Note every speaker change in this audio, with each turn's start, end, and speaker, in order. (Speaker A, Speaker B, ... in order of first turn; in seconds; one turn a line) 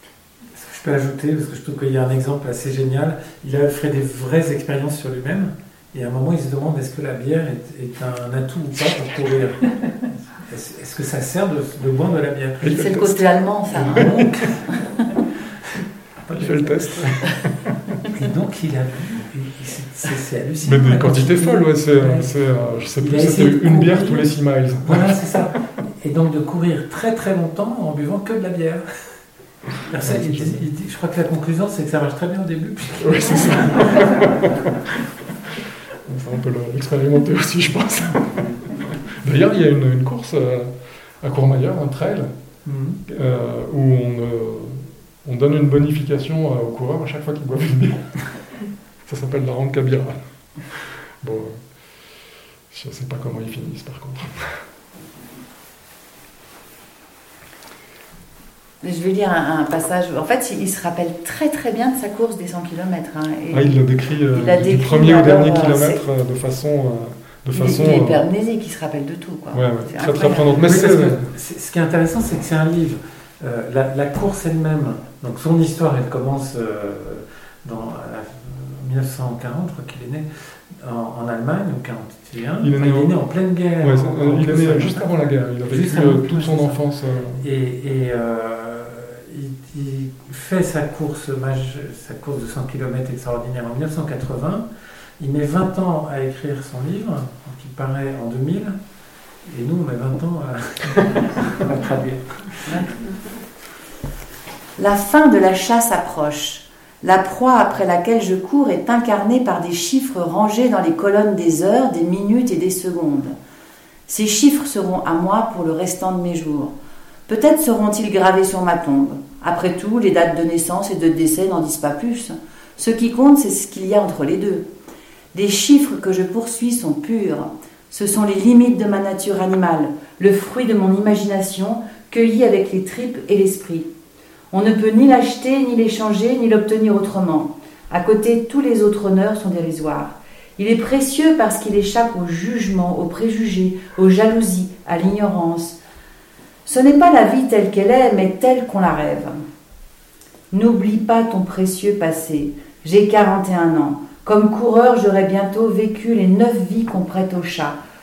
Speaker A: 0.5-9.7
Speaker A: 10.5-12.8
Speaker B: 12.6-13.2
Speaker C: 12.7-15.1
Speaker A: 13.7-14.7
Speaker A: 16.2-17.1
Speaker B: 16.3-17.7
Speaker A: 18.1-22.3
Speaker B: 20.6-25.2
Speaker A: 23.0-24.3
Speaker A: 24.8-29.2
Speaker A: 29.8-34.2
Speaker B: 30.1-30.6
Speaker B: 33.0-34.8
Speaker B: 36.1-42.3
Speaker A: 42.6-43.0
Speaker B: 43.1-48.4
Speaker B: 49.1-51.6
Speaker B: 52.7-54.6
Speaker C: 58.8-66.0
Speaker B: 63.5-68.2
Speaker C: 67.5-70.6
Speaker B: 69.5-71.3
Speaker A: 70.6-86.8
Speaker B: 82.6-83.1
Speaker B: 83.8-87.4
Speaker A: 87.4-94.7
Speaker A: 95.2-98.8
Speaker A: 99.5-102.9
Speaker C: 104.8-113.3
Speaker C: 114.1-116.7
Speaker C: 117.3-124.7
Speaker C: 125.3-133.9
Speaker C: 134.5-145.8
Speaker C: 146.7-149.4
Speaker C: 150.5-157.8